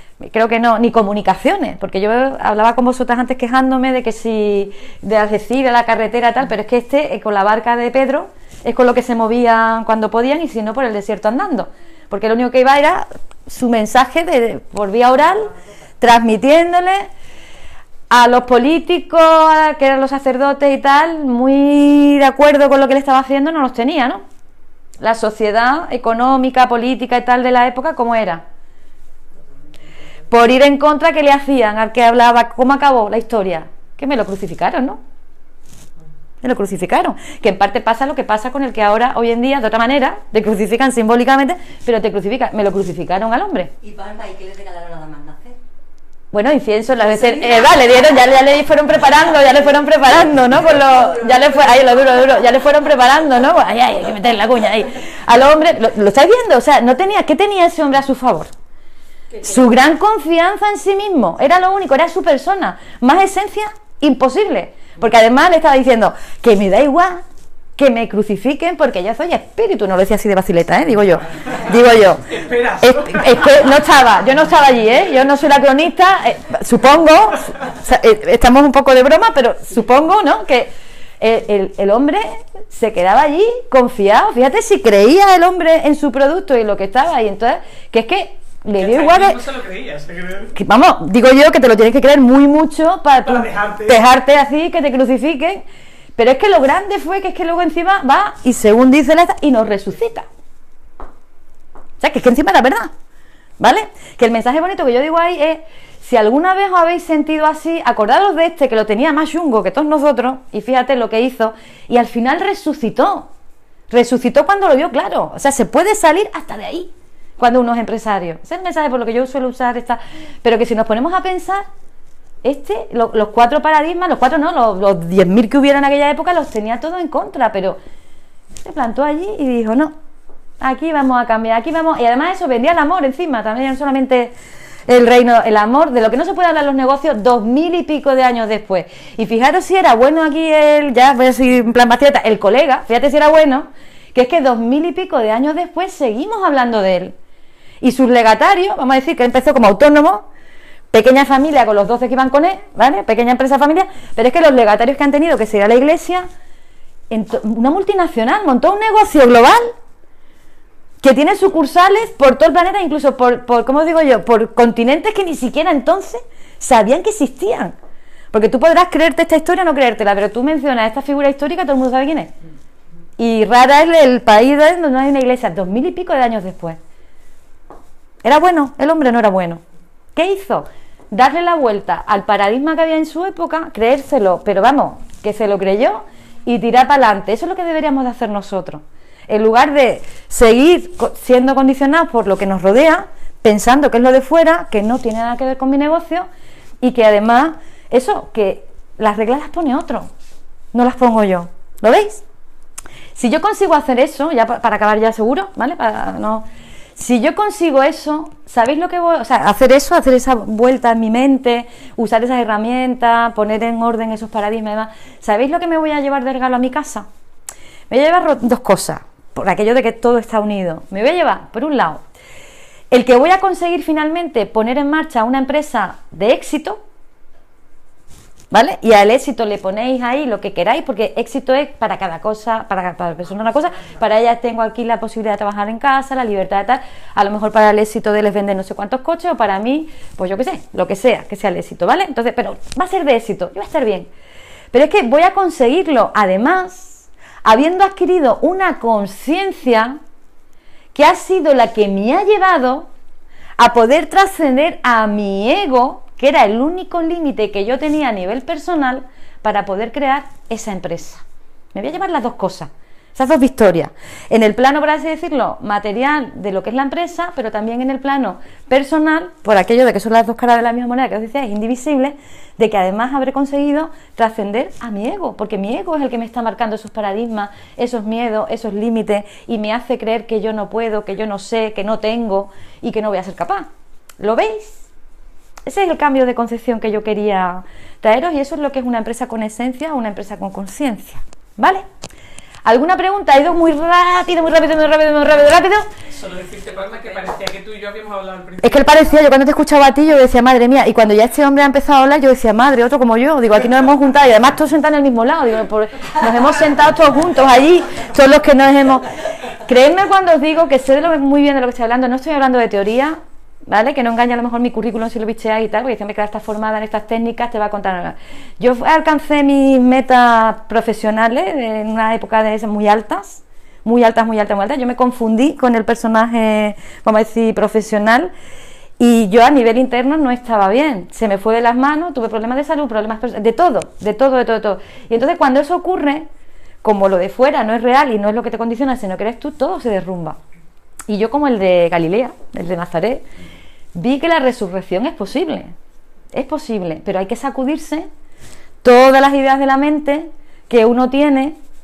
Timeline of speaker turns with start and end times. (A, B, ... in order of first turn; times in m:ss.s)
0:00.2-0:17.1 A
0:18.1-0:24.2 A
0:25.0-0:28.4 A
0:30.3-0:35.0 A
0:36.4-0:43.7 A
0:43.8-0:45.6 B
0:46.3-0:58.5 A
0:47.0-0:48.4 B
0:49.0-0:49.8 B
0:50.7-0:52.4 B
0:59.4-1:07.2 A
1:07.8-1:12.3 A
1:12.2-1:13.9 C
1:12.8-1:29.4 A
1:28.8-1:30.5 C
1:30.5-1:35.6 A
1:33.2-1:34.0 C
1:36.2-1:40.3 A
1:42.0-1:42.9 A
1:43.6-1:53.3 A
1:53.9-2:01.6 A
2:02.4-2:07.8 A
2:08.5-2:09.9 A
2:10.6-2:14.3 A
2:14.9-2:27.1 A
2:27.8-2:30.2 A
2:30.9-2:36.3 A
2:37.1-2:39.7 A
2:41.0-2:47.7 A
2:48.3-2:52.3 A
2:53.2-2:56.8 A
2:58.2-2:59.6 A
3:00.1-3:16.3 A
3:16.8-3:20.1 A
3:20.7-3:22.2 A
3:23.2-3:37.1 A
3:37.9-3:42.0 A
3:42.9-3:46.8 A
3:48.5-4:04.1 A
4:04.7-4:10.0 A
4:10.9-4:12.9 A
4:13.6-4:44.9 A
4:45.6-4:51.8 A
4:52.6-4:55.9 A
4:56.1-4:59.2 C
4:58.6-5:28.3 A
5:29.0-5:36.3 A
5:36.8-5:40.4 A
5:41.1-5:43.2 A
5:43.9-5:45.7 A
5:46.3-5:48.1 A
5:48.8-5:51.6 A